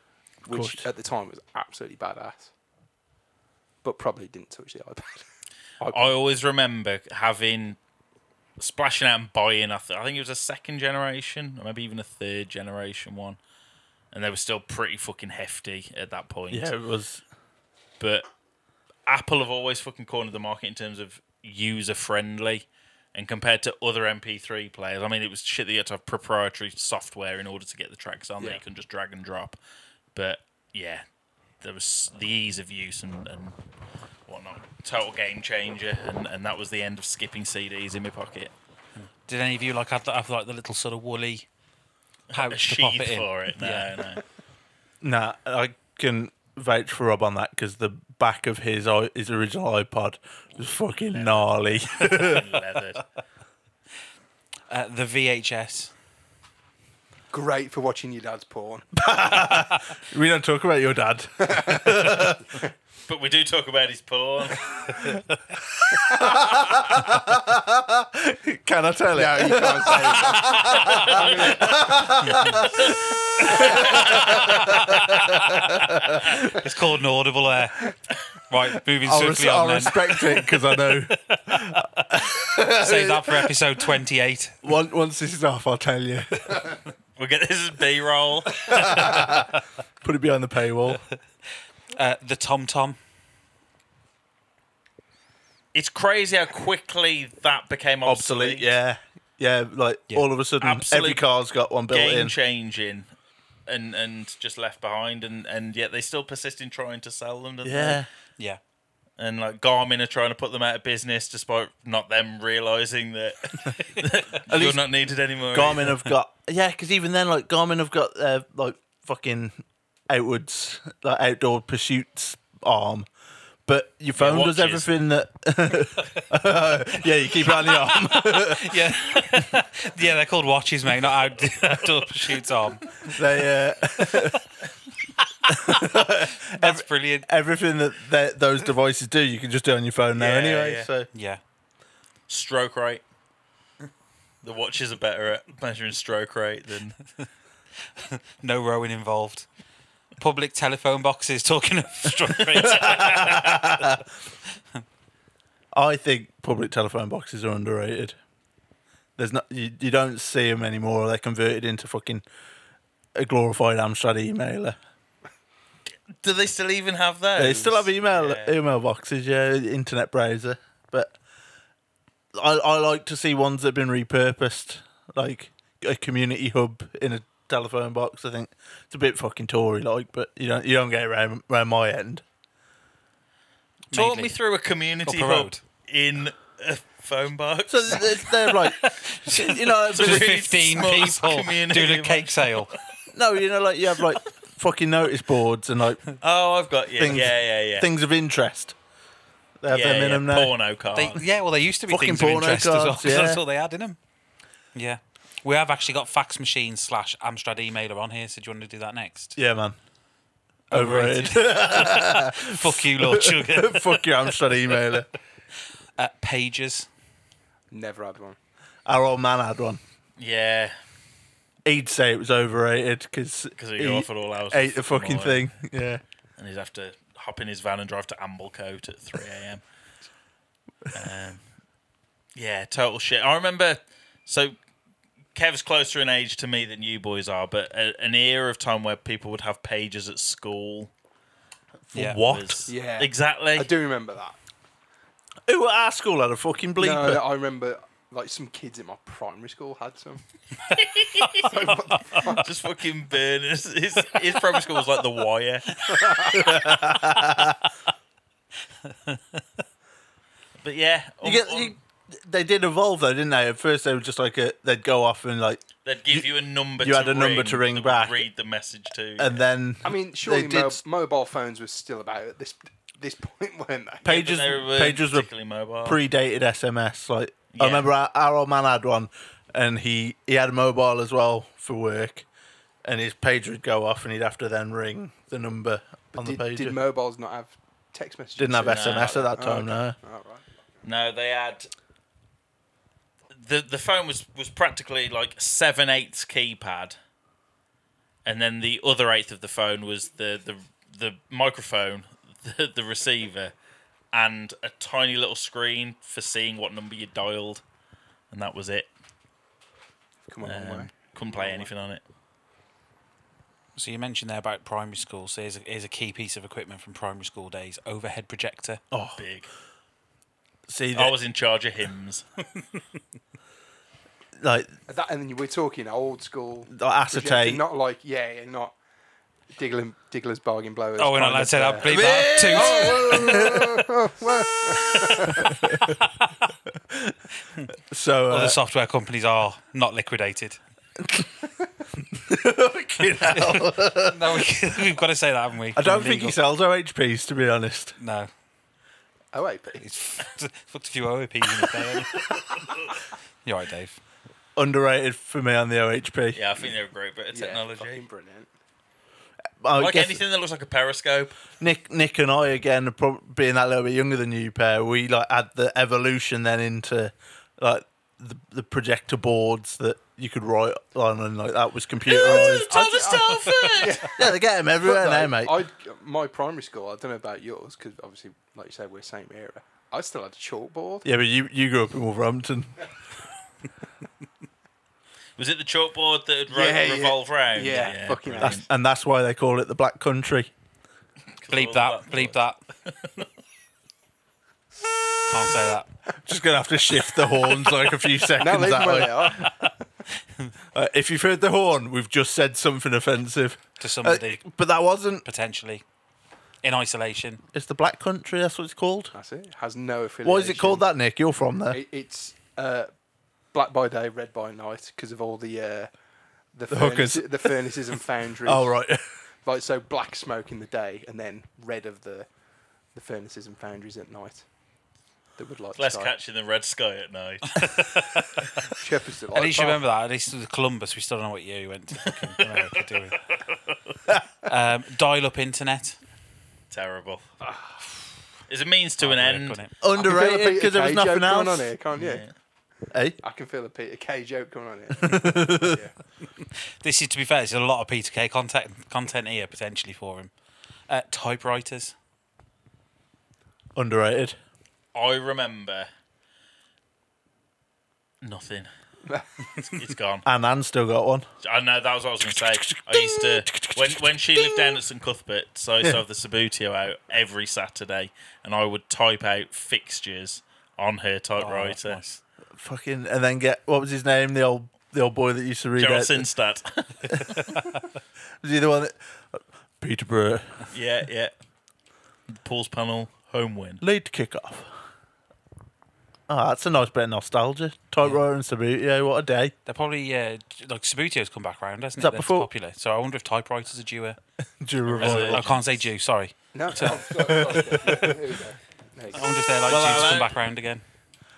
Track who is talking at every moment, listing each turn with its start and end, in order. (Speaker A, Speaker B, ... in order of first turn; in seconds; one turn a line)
Speaker A: 0.5-2.5
Speaker B: 0.5-0.8
Speaker A: 3.8-5.2
Speaker A: 5.8-6.1
Speaker C: 5.9-7.8
Speaker C: 8.6-13.4
Speaker C: 14.1-16.7
Speaker B: 16.5-17.2
Speaker C: 18.0-18.3
Speaker C: 19.1-29.6
Speaker C: 30.1-31.0
Speaker C: 31.6-33.6
Speaker C: 34.3-38.5
Speaker D: 39.0-41.5
Speaker C: 42.3-44.2
Speaker D: 42.3-44.0
Speaker B: 45.0-52.5
Speaker C: 51.1-53.0
Speaker D: 54.7-55.9
Speaker A: 57.3-58.9
Speaker B: 58.9-62.4
Speaker A: 61.5-61.9
Speaker C: 63.1-64.9
Speaker B: 65.2-76.4
Speaker A: 69.1-71.9
Speaker C: 71.0-71.6
Speaker C: 73.5-74.5
Speaker A: 73.6-74.0
Speaker D: 76.3-78.0
Speaker D: 78.5-81.8
Speaker B: 79.0-83.5
Speaker D: 82.6-84.6
Speaker B: 84.6-86.8
Speaker C: 87.2-89.0
Speaker B: 88.7-91.0
Speaker D: 91.9-93.0
Speaker C: 95.7-98.7
Speaker B: 98.0-102.3
Speaker C: 100.6-101.2
Speaker C: 101.9-103.1
Speaker C: 103.7-108.0
Speaker B: 107.6-108.1
Speaker C: 109.2-115.9
Speaker B: 114.5-114.8
Speaker B: 115.5-119.6
Speaker B: 120.1-123.1
Speaker B: 123.7-129.5
Speaker C: 124.2-124.9
Speaker D: 127.5-133.2
Speaker B: 133.1-134.4
Speaker D: 135.5-137.3
Speaker B: 135.5-141.1
Speaker C: 140.2-140.9
Speaker D: 141.1-141.4
Speaker C: 142.3-143.0
Speaker C: 144.4-147.0
Speaker D: 148.0-149.5
Speaker D: 150.2-153.5
Speaker B: 152.6-154.0
Speaker B: 155.7-158.2
Speaker B: 159.2-162.2
Speaker B: 163.2-164.8
Speaker C: 166.1-168.5
Speaker B: 167.4-171.2
Speaker B: 172.3-182.2
Speaker D: 183.9-184.4
Speaker C: 183.9-188.1
Speaker D: 185.1-185.6
Speaker B: 187.7-190.5
Speaker D: 188.5-192.7
Speaker C: 189.9-192.7
Speaker B: 193.1-196.1
Speaker C: 196.2-197.9
Speaker B: 197.0-198.8
Speaker B: 199.6-200.5
Speaker C: 199.7-201.2
Speaker D: 200.9-204.0
Speaker B: 201.9-203.4
Speaker D: 204.8-209.4
Speaker B: 209.4-209.8
Speaker D: 210.7-214.4
Speaker B: 210.7-215.1
Speaker D: 216.0-216.9
Speaker A: 217.7-218.4
Speaker B: 218.9-219.8
Speaker C: 220.2-220.8
Speaker B: 221.7-226.0
Speaker C: 223.6-225.6
Speaker C: 226.4-229.6
Speaker C: 230.9-231.4
Speaker C: 232.3-234.6
Speaker C: 235.3-240.9
Speaker B: 241.9-242.6
Speaker D: 241.9-242.2
Speaker C: 242.0-243.7
Speaker A: 242.7-244.4
Speaker B: 245.5-247.2
Speaker A: 246.8-250.2
Speaker C: 250.7-251.5
Speaker A: 251.3-252.4
Speaker C: 252.2-255.7
Speaker A: 255.9-256.4
Speaker B: 256.3-257.6
Speaker D: 258.9-259.2
Speaker C: 260.6-261.8
Speaker B: 261.2-268.3
Speaker C: 265.9-269.4
Speaker B: 269.2-270.8
Speaker A: 269.8-274.2
Speaker B: 274.0-275.3
Speaker C: 274.1-276.0
Speaker B: 275.8-282.3
Speaker C: 277.5-277.9
Speaker B: 282.8-286.8
Speaker A: 286.1-290.4
Speaker B: 288.4-290.0
Speaker C: 288.7-289.2
Speaker C: 290.8-291.7
Speaker C: 293.3-297.0
Speaker C: 298.2-303.5
Speaker C: 304.1-307.6
Speaker C: 308.3-308.9
Speaker A: 310.3-311.7
Speaker C: 310.4-312.0
Speaker D: 313.8-318.8
Speaker B: 318.9-319.2
Speaker C: 319.2-319.5
Speaker B: 320.7-321.1
Speaker C: 320.9-322.2
Speaker B: 324.4-324.7
Speaker A: 324.9-328.8
Speaker B: 326.7-327.6
Speaker A: 329.5-332.0
Speaker D: 331.0-333.2
Speaker B: 331.9-333.9
Speaker A: 332.5-335.6
Speaker B: 335.4-335.8
Speaker B: 336.8-337.1
Speaker B: 337.9-338.6
Speaker D: 338.3-340.6
Speaker B: 341.0-341.3
Speaker B: 342.1-344.4
Speaker D: 343.3-346.4
Speaker B: 345.8-347.9
Speaker D: 348.0-348.3
Speaker A: 349.3-349.9
Speaker D: 349.8-352.3
Speaker D: 353.4-354.0
Speaker B: 354.6-356.4
Speaker C: 356.3-358.0
Speaker A: 357.3-358.5
Speaker B: 359.6-360.2
Speaker C: 359.8-361.4
Speaker B: 361.6-373.1
Speaker C: 372.1-374.0
Speaker A: 372.3-381.1
Speaker B: 374.1-375.6
Speaker B: 381.1-382.8
Speaker C: 385.4-388.7
Speaker A: 386.5-388.6
Speaker B: 388.4-390.5
Speaker C: 391.4-393.3
Speaker D: 391.5-392.6
Speaker D: 395.3-395.9
Speaker B: 396.3-399.5
Speaker A: 398.4-399.7
Speaker B: 400.7-405.2
Speaker D: 403.8-404.4
Speaker D: 405.2-405.8
Speaker D: 406.6-407.4
Speaker B: 407.5-409.1
Speaker A: 409.1-410.9
Speaker B: 410.2-411.8
Speaker A: 411.7-412.9
Speaker A: 413.5-415.9
Speaker A: 416.5-418.8
Speaker B: 416.7-417.7
Speaker B: 418.4-419.0
Speaker A: 419.4-422.3
Speaker A: 422.9-424.4
Speaker A: 425.4-426.1
Speaker C: 425.8-427.6
Speaker D: 427.6-428.4
Speaker A: 428.8-429.8
Speaker D: 429.3-433.2
Speaker C: 433.3-433.8
Speaker D: 434.5-436.0
Speaker C: 436.7-437.2
Speaker C: 438.5-439.6
Speaker D: 439.0-439.8
Speaker B: 439.8-441.7
Speaker A: 439.9-442.3
Speaker C: 441.9-442.3
Speaker B: 442.9-443.2
Speaker A: 443.2-445.9
Speaker B: 445.0-445.8
Speaker D: 446.8-450.3
Speaker D: 450.9-451.9
Speaker B: 453.8-454.4
Speaker C: 454.9-455.9
Speaker C: 458.2-458.7
Speaker C: 459.6-460.3
Speaker B: 460.3-461.3
Speaker C: 461.4-472.0
Speaker B: 462.2-464.8
Speaker D: 471.4-472.2
Speaker B: 472.6-476.3
Speaker C: 475.8-477.4
Speaker B: 478.4-480.6
Speaker C: 480.7-481.3
Speaker C: 482.3-483.8
Speaker B: 483.8-484.7
Speaker B: 486.3-489.5
Speaker D: 489.7-494.2
Speaker B: 492.0-492.5
Speaker B: 494.6-495.5
Speaker C: 494.9-495.8
Speaker D: 495.0-497.6
Speaker A: 496.5-499.3
Speaker B: 497.2-498.2
Speaker D: 499.1-500.8
Speaker C: 499.7-500.3